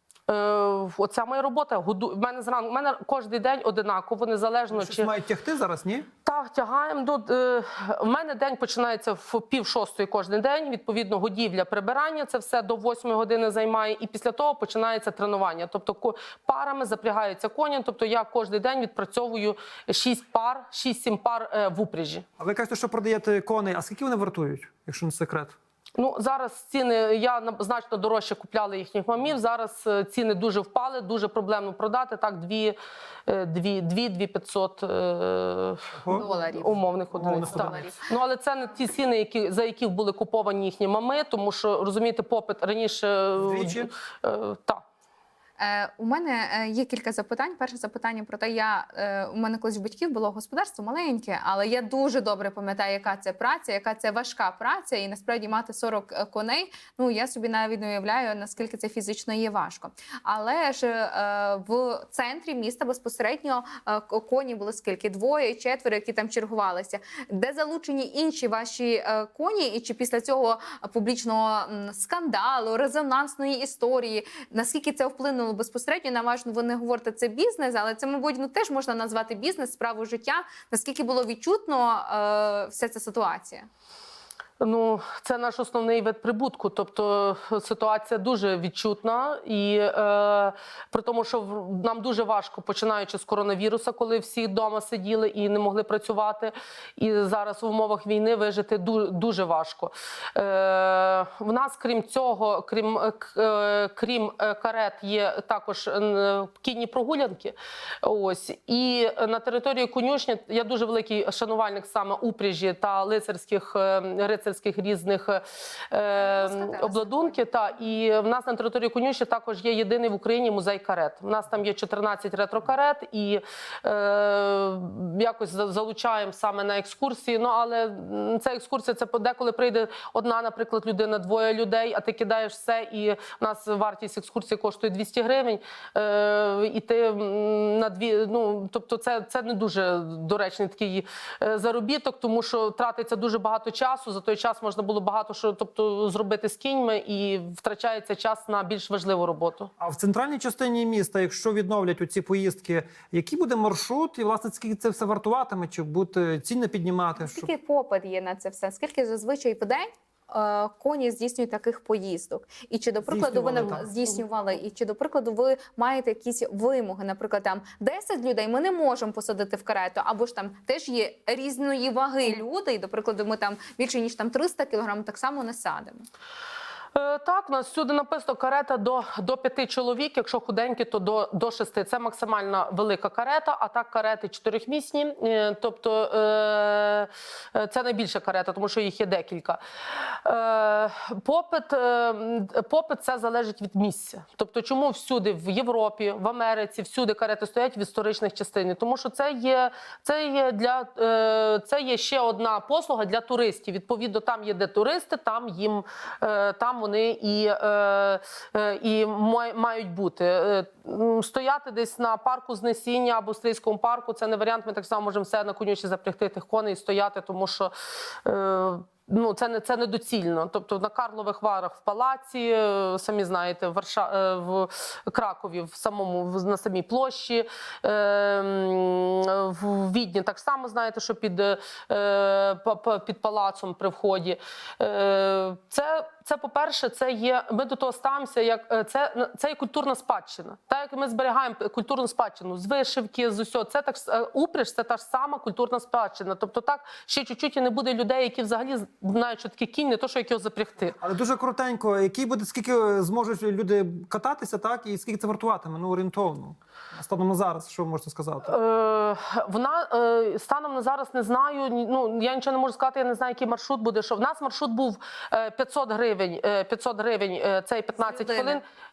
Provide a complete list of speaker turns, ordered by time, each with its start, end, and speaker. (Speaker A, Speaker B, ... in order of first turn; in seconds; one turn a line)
Speaker A: 0.3-5.1
Speaker B: 4.7-6.1
Speaker A: 6.2-22.2
Speaker B: 22.4-25.6
Speaker A: 26.0-32.8
Speaker A: 33.3-44.8
Speaker B: 36.0-36.3
Speaker C: 36.1-36.8
Speaker B: 37.1-37.9
Speaker C: 37.4-38.0
Speaker B: 43.4-43.9
Speaker C: 45.6-83.7
Speaker A: 84.6-149.7
Speaker C: 116.2-117.4
Speaker B: 149.8-157.5
Speaker C: 157.2-176.0
Speaker B: 163.1-163.9
Speaker A: 176.9-217.7
Speaker A: 218.2-251.0
Speaker B: 251.0-258.6
Speaker A: 258.5-268.6
Speaker C: 267.9-268.6